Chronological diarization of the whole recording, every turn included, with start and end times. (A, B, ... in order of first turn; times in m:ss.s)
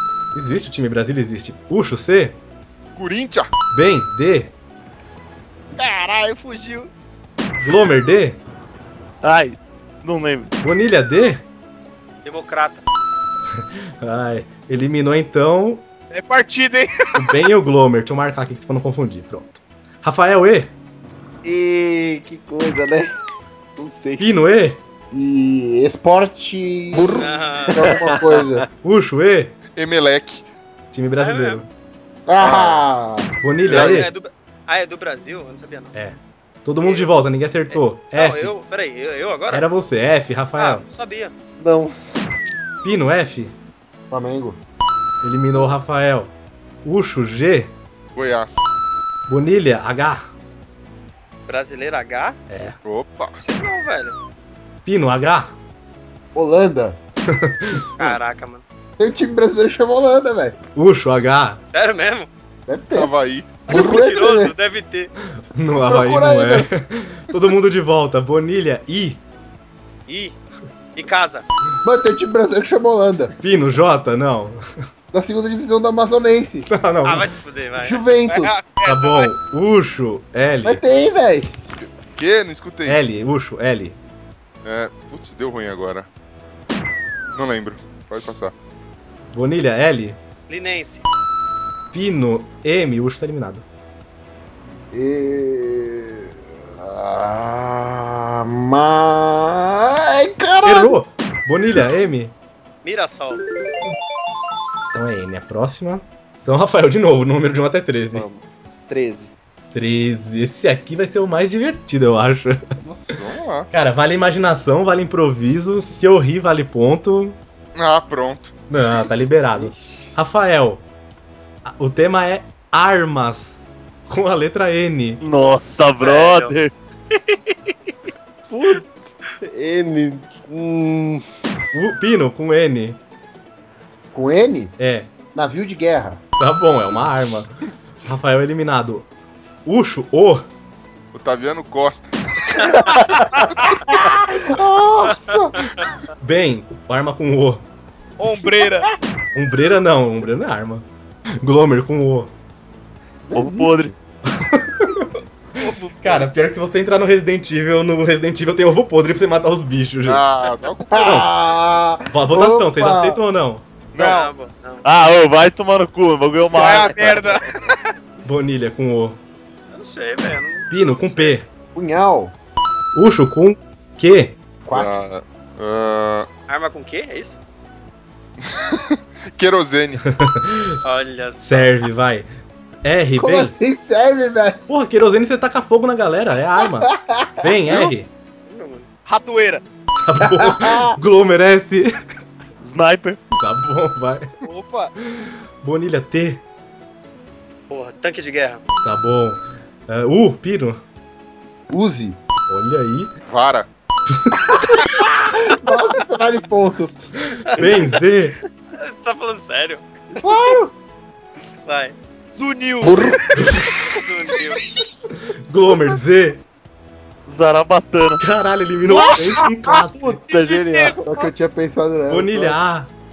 0:00.3-0:02.4 A
0:03.0-0:03.5 B
0:03.7-0:04.5 A
0:05.8-0:06.9 C
0:07.6-0:08.4 A
0:09.2-0:10.5 D
0:10.6-0:11.4 A
0:12.2-0:12.8 E
0:14.0-0:15.8 A
0:16.1-0:17.3 C
0:17.2-0:20.7 A
0:21.4-0:23.1 F
0:23.8-0:24.3 F
0:24.2-0:24.8 A
0:25.1-0:28.6 G
0:27.0-0:28.7 F
0:27.2-0:27.8 E
0:28.8-0:29.6 A
0:29.7-0:30.4 B
0:30.9-0:31.7 A
0:31.2-0:31.6 E
0:32.3-0:33.3 G
0:32.4-0:32.8 B
0:33.4-0:34.1 A
0:33.7-0:34.1 B
0:33.7-0:35.9 E
0:35.9-0:38.5 A
0:36.8-0:37.1 E
0:37.7-0:39.7 E
0:39.5-0:40.8 A
0:40.6-0:41.3 E
0:41.6-0:42.0 F
0:42.8-0:43.5 A
0:44.1-0:44.6 G
0:45.2-0:46.3 A
0:46.8-0:47.7 A
0:48.2-0:48.7 B
0:49.3-0:50.3 A
0:51.5-0:52.4 E
0:52.5-0:52.8 A
0:52.8-0:53.4 B
0:53.4-0:54.2 E
0:54.8-0:55.6 A
0:56.3-0:57.0 G
0:57.3-0:57.8 A
0:58.0-0:58.6 E
0:59.0-1:00.6 G
1:00.8-1:01.6 A
1:01.6-1:02.3 E
1:02.7-1:03.1 G
1:02.9-1:03.6 B
1:03.7-1:04.5 G
1:03.7-1:05.1 E
1:05.5-1:09.2 A
1:05.8-1:06.7 G
1:10.1-1:10.4 E
1:11.0-1:11.4 E
1:11.8-1:13.4 G
1:13.4-1:14.6 A
1:15.1-1:16.7 G
1:16.7-1:17.3 A
1:17.0-1:18.0 E
1:17.8-1:18.6 G
1:18.3-1:19.3 C
1:18.8-1:20.8 A
1:20.6-1:21.5 G
1:22.2-1:23.0 B
1:22.9-1:24.0 A
1:24.6-1:26.1 B
1:27.3-1:28.5 B
1:29.3-1:30.2 A
1:30.5-1:31.0 E
1:31.9-1:33.6 A
1:34.9-1:41.0 G
1:40.6-1:42.3 A
1:42.8-1:43.4 E
1:44.9-1:48.2 A
1:48.1-1:49.3 F
1:49.7-1:53.1 A
1:52.8-1:53.7 B
1:53.7-1:57.4 A
1:57.8-1:58.6 B
1:58.7-2:00.8 A
1:59.6-2:00.1 F
2:01.6-2:05.2 A
2:05.2-2:06.7 D
2:06.0-2:06.5 E
2:07.1-2:07.6 E
2:08.5-2:08.9 F
2:09.4-2:11.2 F
2:11.7-2:13.0 A
2:14.1-2:14.7 G
2:14.8-2:15.1 A
2:15.4-2:16.2 G
2:16.4-2:19.1 A
2:19.7-2:20.4 A
2:21.1-2:22.6 B
2:23.9-2:25.6 G
2:26.2-2:27.6 A
2:28.2-2:28.9 C
2:29.4-2:30.8 A
2:31.4-2:32.3 A
2:33.3-2:33.8 G
2:33.3-2:33.9 D
2:34.3-2:35.1 A
2:35.6-2:36.3 C
2:36.0-2:40.2 A
2:40.0-2:41.2 B
2:40.9-2:43.2 G
2:42.1-2:43.6 A
2:43.9-2:44.2 B
2:44.0-2:44.3 C
2:44.0-2:44.8 E
2:44.8-2:47.3 D
2:46.5-2:47.8 C
2:48.2-2:49.2 A
2:49.7-2:51.4 E
2:50.7-2:51.5 A
2:51.7-2:52.3 G
2:53.0-2:54.4 A
2:54.7-2:56.3 B
2:56.5-2:57.4 E
2:58.4-3:00.0 B
3:00.1-3:02.3 A
3:00.8-3:01.6 E
3:02.8-3:03.6 A
3:03.2-3:04.6 G
3:04.7-3:08.1 A
3:06.6-3:07.8 G
3:08.5-3:08.9 E
3:09.1-3:09.6 C
3:10.0-3:11.9 A
3:10.2-3:11.0 G
3:12.6-3:13.2 D
3:13.3-3:14.3 A
3:14.4-3:14.9 C
3:15.1-3:16.4 A
3:17.7-3:18.6 E
3:18.8-3:20.8 A
3:21.7-3:22.2 G
3:22.5-3:23.1 A
3:23.3-3:23.7 B
3:24.1-3:24.5 A
3:24.5-3:27.1 G
3:27.4-3:28.4 A
3:28.7-3:29.8 E
3:30.2-3:30.7 G
3:31.7-3:32.0 E
3:32.3-3:33.2 C
3:33.4-3:33.7 A
3:33.9-3:34.6 E
3:35.3-3:36.4 A
3:37.3-3:38.2 D
3:38.2-3:40.2 A
3:39.0-3:39.4 C
3:40.0-3:41.0 D
3:40.2-3:41.0 C
3:41.0-3:42.6 G
3:42.1-3:42.9 A